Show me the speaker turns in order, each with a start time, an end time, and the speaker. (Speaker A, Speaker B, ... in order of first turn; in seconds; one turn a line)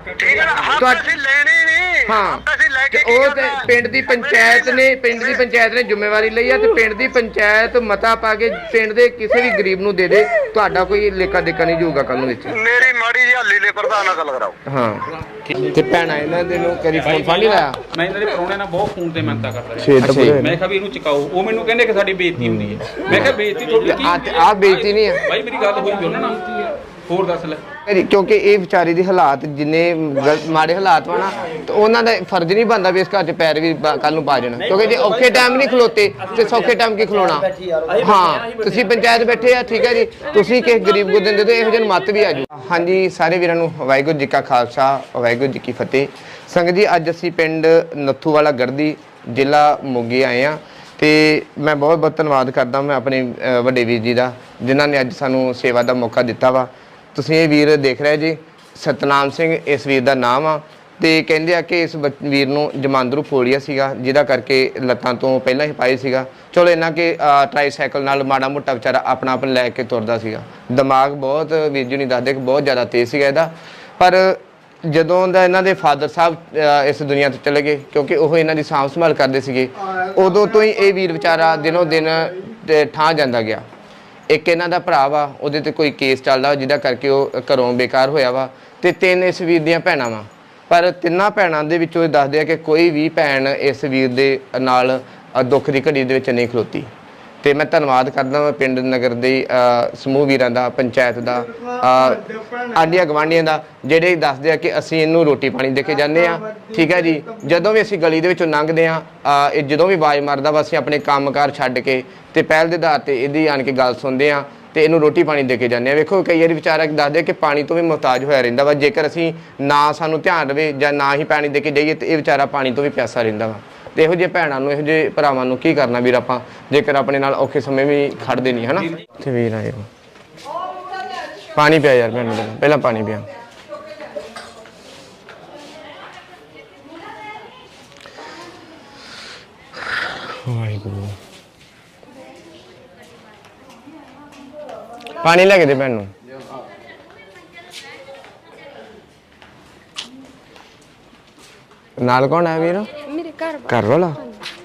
Speaker A: 0.2-5.4
Speaker B: 0.7-1.1
Speaker B: 2.0-12.6
Speaker A: 12.5-14.6
Speaker B: 14.7-15.1
Speaker B: 15.7-17.8
Speaker C: 16.9-27.6
Speaker B: 19.8-20.5
Speaker B: 22.6-23.3
Speaker B: 23.9-25.2
Speaker B: 27.9-83.6
Speaker D: 40.2-42.3
Speaker B: 84.3-96.9
Speaker B: 97.4-129.9
Speaker B: 131.5-133.2
Speaker B: 140.3-141.2
Speaker B: 145.2-146.1
Speaker B: 152.0-152.9
Speaker D: 153.0-154.4
Speaker B: 153.7-154.2